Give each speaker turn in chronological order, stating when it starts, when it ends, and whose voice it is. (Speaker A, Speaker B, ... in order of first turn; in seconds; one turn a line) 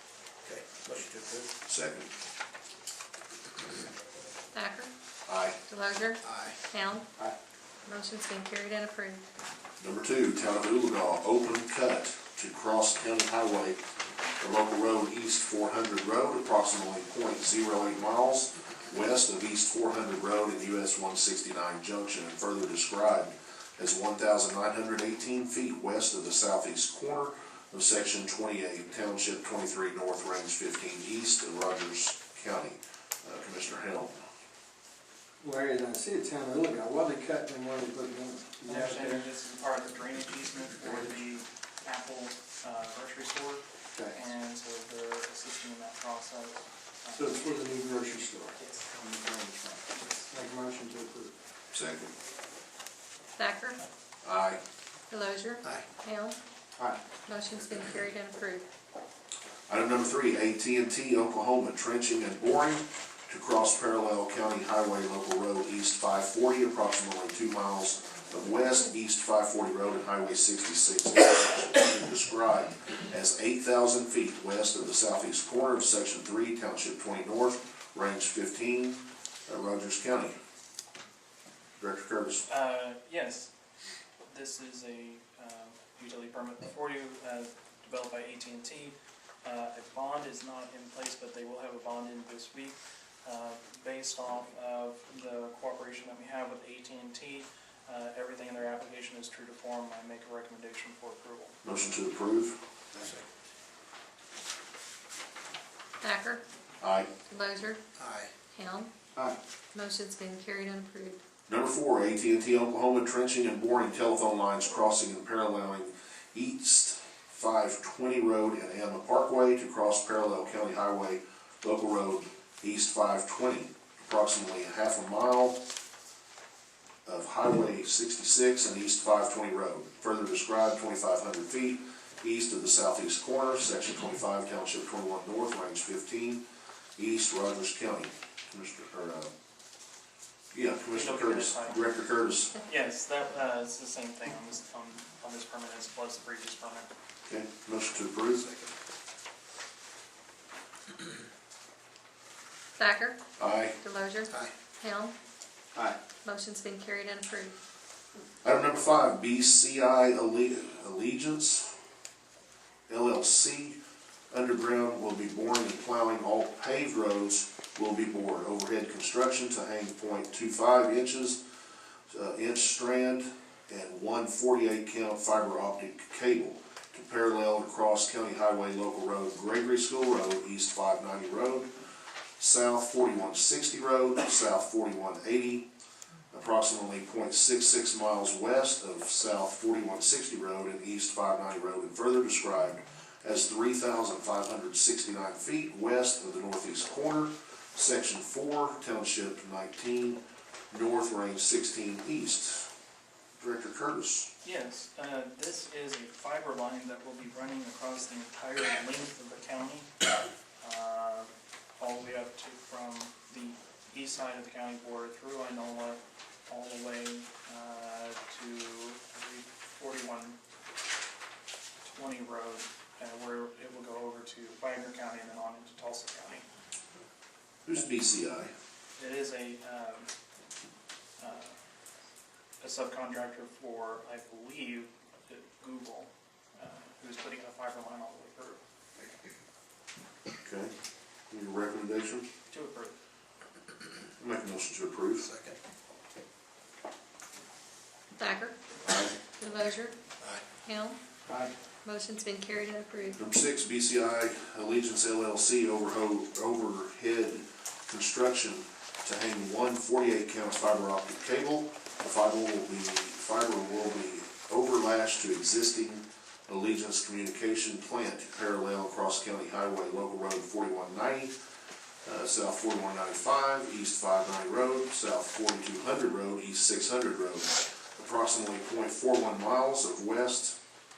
Speaker A: 0.4-1.5
Speaker B: 1.6-2.1
Speaker C: 4.5-4.9
Speaker B: 5.2-5.6
Speaker C: 5.7-7.0
Speaker A: 6.2-6.5
Speaker C: 7.8-9.2
Speaker B: 9.8-13.8
Speaker B: 14.4-34.2
Speaker D: 35.4-39.3
Speaker E: 38.6-47.8
Speaker D: 47.1-51.3
Speaker E: 48.5-48.9
Speaker B: 51.7-52.1
Speaker C: 53.4-53.8
Speaker B: 54.2-54.6
Speaker C: 55.1-56.4
Speaker C: 57.2-58.7
Speaker B: 59.7-80.3
Speaker B: 81.8-82.5
Speaker E: 82.5-83.5
Speaker E: 84.3-101.5
Speaker B: 101.6-102.6
Speaker A: 102.9-103.2
Speaker C: 106.0-106.4
Speaker B: 106.8-107.1
Speaker C: 107.3-107.8
Speaker A: 108.0-108.3
Speaker C: 108.5-108.9
Speaker C: 109.7-111.2
Speaker B: 111.5-125.6
Speaker B: 127.0-136.4
Speaker B: 137.0-139.3
Speaker B: 140.5-142.5
Speaker E: 140.9-141.8
Speaker E: 142.6-146.9
Speaker B: 147.3-148.7
Speaker C: 152.8-153.2
Speaker B: 153.4-153.8
Speaker C: 153.8-155.1
Speaker C: 156.2-157.6
Speaker B: 158.4-161.7
Speaker B: 162.9-163.8
Speaker B: 164.3-171.4
Speaker B: 172.1-181.7
Speaker B: 182.4-185.7
Speaker B: 186.3-202.7
Speaker B: 203.3-204.3
Speaker E: 204.4-209.9
Speaker E: 210.6-220.4
Speaker E: 221.8-226.4
Speaker B: 227.6-228.5
Speaker E: 229.0-230.1
Speaker E: 231.2-231.5
Speaker E: 232.6-238.6
Speaker B: 240.4-240.7
Speaker B: 241.3-242.2
Speaker E: 242.5-242.9
Speaker B: 244.2-245.3
Speaker A: 245.2-245.6
Speaker C: 248.2-248.6
Speaker B: 248.8-249.1
Speaker C: 249.4-249.9
Speaker C: 250.6-251.0
Speaker D: 251.3-251.5
Speaker C: 251.8-253.2
Speaker B: 253.2-271.3
Speaker B: 272.0-280.6